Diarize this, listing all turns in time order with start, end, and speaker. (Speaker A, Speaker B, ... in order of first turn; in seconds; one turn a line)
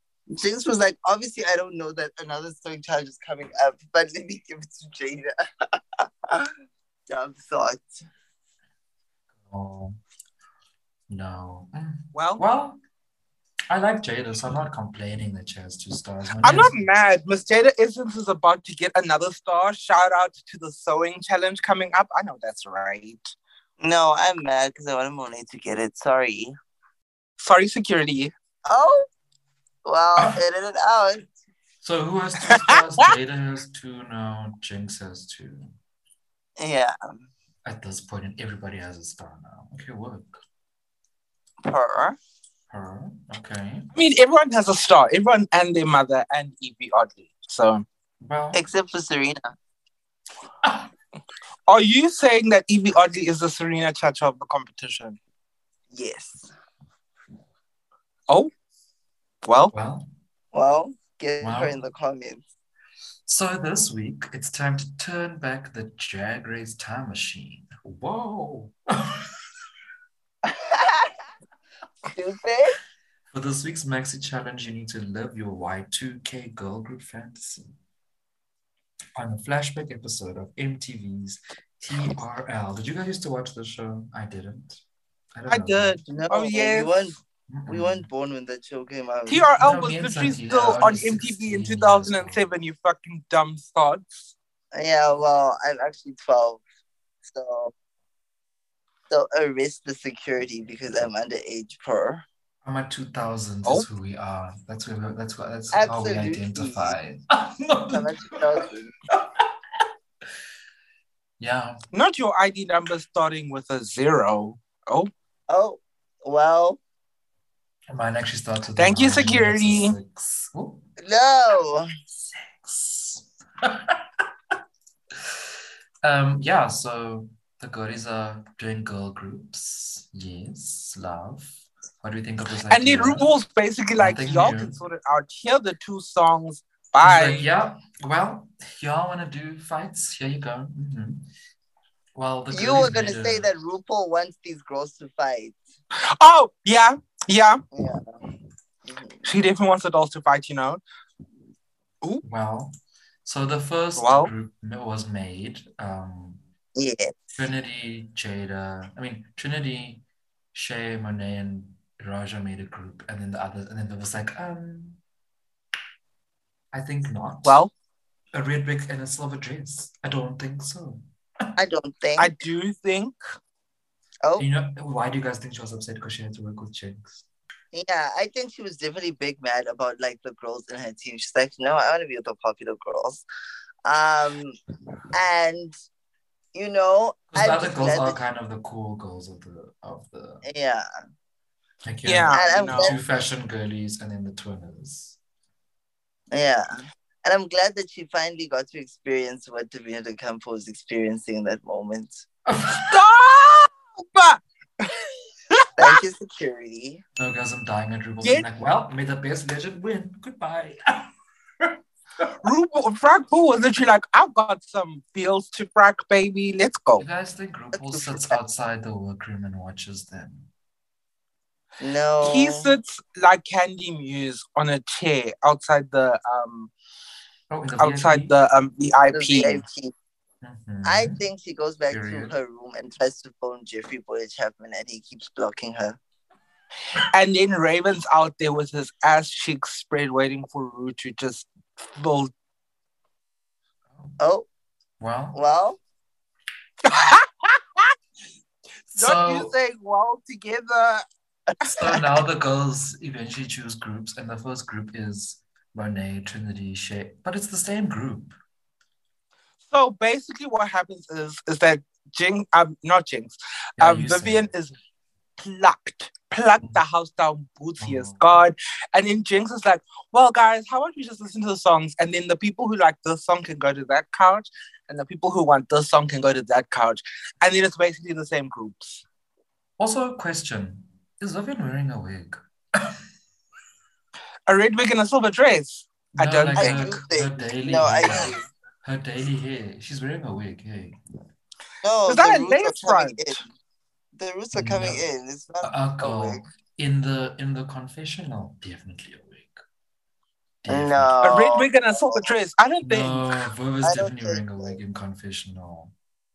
Speaker A: 0.3-5.3
Speaker A: 6.0-6.5
Speaker A: 7.1-8.0
Speaker B: 9.4-10.0
Speaker B: 11.1-12.8
Speaker C: 12.1-12.4
Speaker B: 13.7-16.9
Speaker C: 16.4-23.4
Speaker A: 23.8-26.6
Speaker C: 27.4-28.3
Speaker A: 28.7-29.1
Speaker A: 29.9-31.3
Speaker B: 31.8-35.8
Speaker C: 32.5-33.1
Speaker A: 36.6-37.0
Speaker B: 37.6-40.4
Speaker A: 41.6-42.2
Speaker B: 42.7-43.9
Speaker C: 43.9-47.9
Speaker B: 48.2-48.6
Speaker A: 48.5-49.5
Speaker C: 51.7-55.2
Speaker A: 55.9-56.5
Speaker C: 59.4-59.7
Speaker B: 59.7-60.1
Speaker A: 60.5-62.4
Speaker B: 61.4-61.8
Speaker B: 63.3-69.3
Speaker A: 70.5-71.2
Speaker A: 72.1-72.8
Speaker B: 73.3-77.7
Speaker B: 79.2-84.8
Speaker B: 85.3-86.0
Speaker C: 85.5-87.0
Speaker A: 86.1-89.5
Speaker B: 87.5-88.1
Speaker C: 89.3-94.3
Speaker B: 89.6-92.5
Speaker A: 94.7-96.6
Speaker A: 97.2-97.7
Speaker A: 99.1-102.2
Speaker B: 102.7-108.6
Speaker A: 105.7-107.0
Speaker A: 107.9-108.9
Speaker B: 109.1-109.8
Speaker B: 111.4-111.8
Speaker C: 111.9-115.1
Speaker A: 115.5-116.8
Speaker B: 117.9-120.8
Speaker C: 118.8-120.0
Speaker A: 121.0-121.9
Speaker B: 122.5-124.0
Speaker B: 126.0-133.3
Speaker C: 132.7-137.4
Speaker B: 134.0-134.8
Speaker B: 137.0-141.3
Speaker B: 142.2-143.5
Speaker A: 142.5-145.6
Speaker C: 146.2-147.6
Speaker A: 147.7-148.2
Speaker A: 148.8-149.2
Speaker C: 149.2-150.8
Speaker B: 152.2-156.4
Speaker C: 154.0-154.3
Speaker A: 156.8-157.3
Speaker B: 157.4-165.0
Speaker B: 166.7-167.6
Speaker C: 167.4-167.7
Speaker B: 168.3-171.0
Speaker A: 171.6-172.3
Speaker C: 172.2-173.1
Speaker B: 174.4-177.3
Speaker A: 177.7-183.2
Speaker A: 183.8-184.6
Speaker A: 185.1-185.8
Speaker A: 186.5-188.2
Speaker B: 187.3-190.4
Speaker A: 190.4-190.9
Speaker B: 191.9-195.2
Speaker C: 192.1-192.9
Speaker A: 192.3-193.0
Speaker A: 196.3-196.7
Speaker A: 197.2-202.2
Speaker B: 202.5-203.0
Speaker C: 202.8-205.9
Speaker A: 205.8-207.0
Speaker B: 207.2-211.1
Speaker B: 211.6-212.3
Speaker C: 212.4-217.1
Speaker B: 217.0-220.5
Speaker A: 217.7-218.4
Speaker A: 221.8-222.7
Speaker C: 222.2-226.7
Speaker B: 227.5-228.3
Speaker C: 227.8-229.6
Speaker A: 229.1-229.9
Speaker B: 230.4-231.2
Speaker A: 230.8-236.0
Speaker B: 231.9-232.3
Speaker C: 236.9-242.3
Speaker A: 244.2-244.5
Speaker B: 245.0-245.4
Speaker A: 245.3-245.8
Speaker C: 246.8-247.9
Speaker C: 248.9-251.1
Speaker B: 248.9-249.5
Speaker B: 251.6-258.4
Speaker C: 259.7-264.7
Speaker B: 263.8-264.5
Speaker C: 265.4-279.0
Speaker B: 267.8-268.4
Speaker B: 279.8-283.0
Speaker C: 284.5-286.9
Speaker B: 286.2-291.0
Speaker A: 286.6-288.5
Speaker A: 291.8-293.5
Speaker C: 292.1-293.4
Speaker A: 294.1-296.5
Speaker B: 294.5-295.0
Speaker B: 295.6-299.6
Speaker B: 300.6-301.2
Speaker A: 300.7-302.3
Speaker C: 301.2-303.3
Speaker B: 302.8-305.9
Speaker A: 303.8-304.8